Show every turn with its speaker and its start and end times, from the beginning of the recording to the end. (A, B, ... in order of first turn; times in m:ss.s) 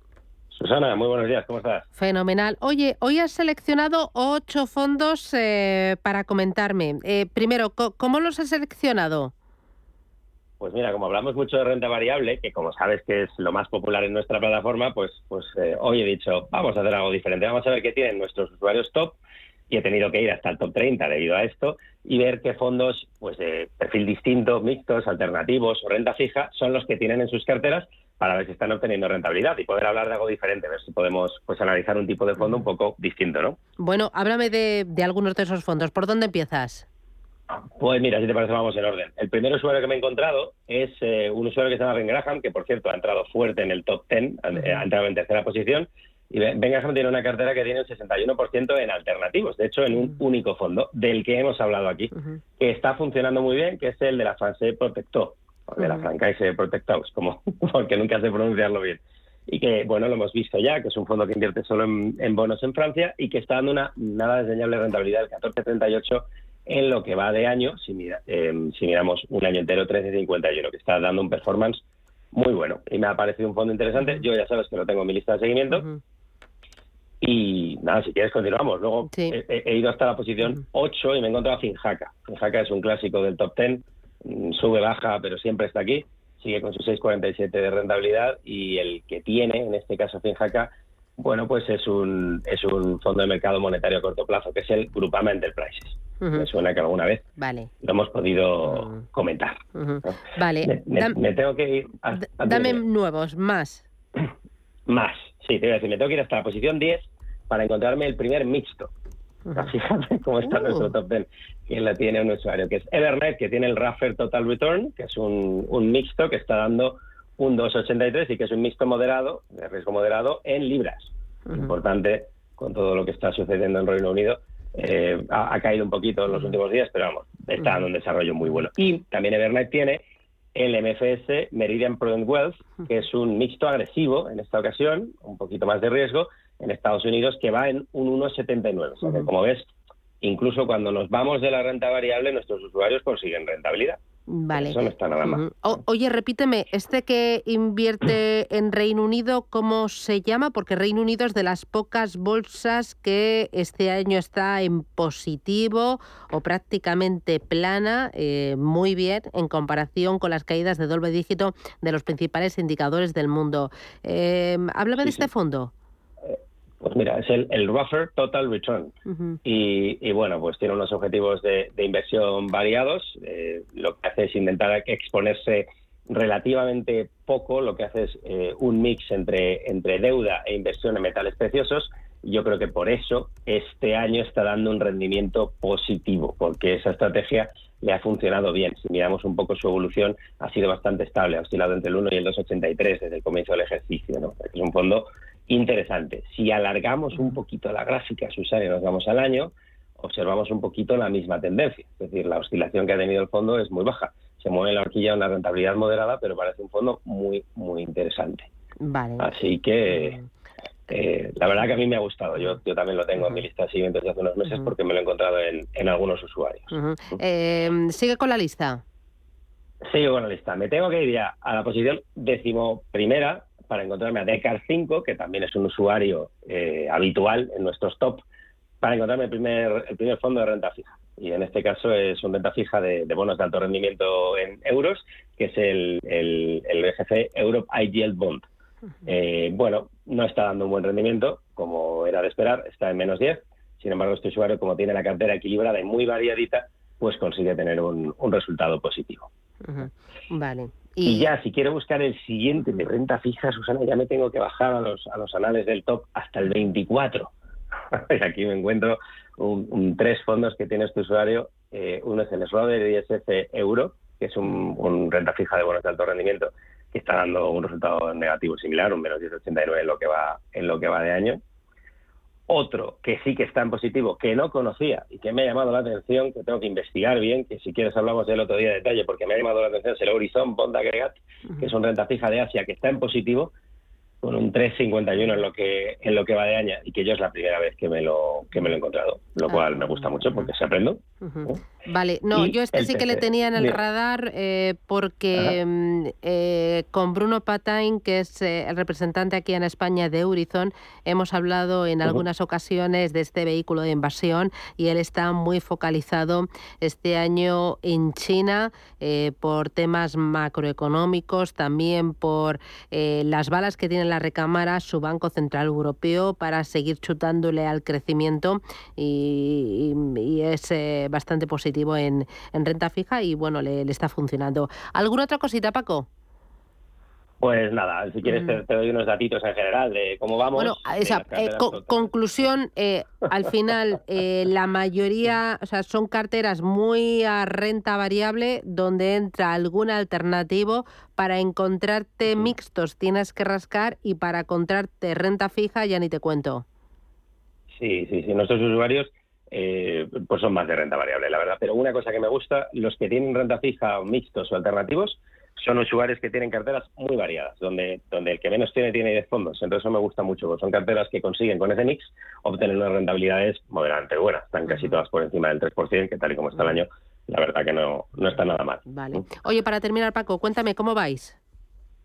0:00.5-0:01.9 A
0:02.0-0:09.3 B
0:10.6-0:19.2 A
0:19.7-0:33.6 A
0:33.8-0:36.9 B
0:37.8-1:11.8 A
0:55.8-0:56.0 B
1:12.3-1:15.9 A
1:15.7-1:16.0 B
1:17.2-1:37.2 A
1:19.1-1:19.4 B
1:36.2-1:36.5 B
1:37.4-1:37.7 B
1:37.8-1:42.8 A
1:38.7-1:39.0 B
1:39.8-1:41.2 B
1:42.2-1:43.8 B
1:44.9-1:48.9 A
1:49.5-2:10.0 A
1:50.5-1:50.9 B
2:10.6-2:19.7 A
2:20.2-2:24.0 A
2:24.3-2:45.7 B
2:24.5-2:25.5 A
2:45.0-2:45.3 A
2:46.2-3:28.5 A
2:49.1-2:49.4 B
3:28.8-3:29.3 B
3:29.2-3:30.2 A
3:29.9-3:30.2 B
3:30.9-3:36.7 A
3:36.7-3:38.8 B
3:39.9-3:48.2 A
3:48.8-3:58.5 A
3:59.0-4:09.3 A
4:09.6-4:11.3 B
4:11.0-4:17.3 A
4:17.9-4:31.4 A
4:32.5-4:43.5 A
4:44.2-4:51.6 A
4:49.5-4:50.5 B
4:51.2-5:26.1 B
4:52.3-4:53.8 A
5:27.4-5:32.1 A
5:28.3-5:28.6 B
5:30.6-5:46.6 B
5:47.8-6:09.2 A
6:08.9-6:11.4 B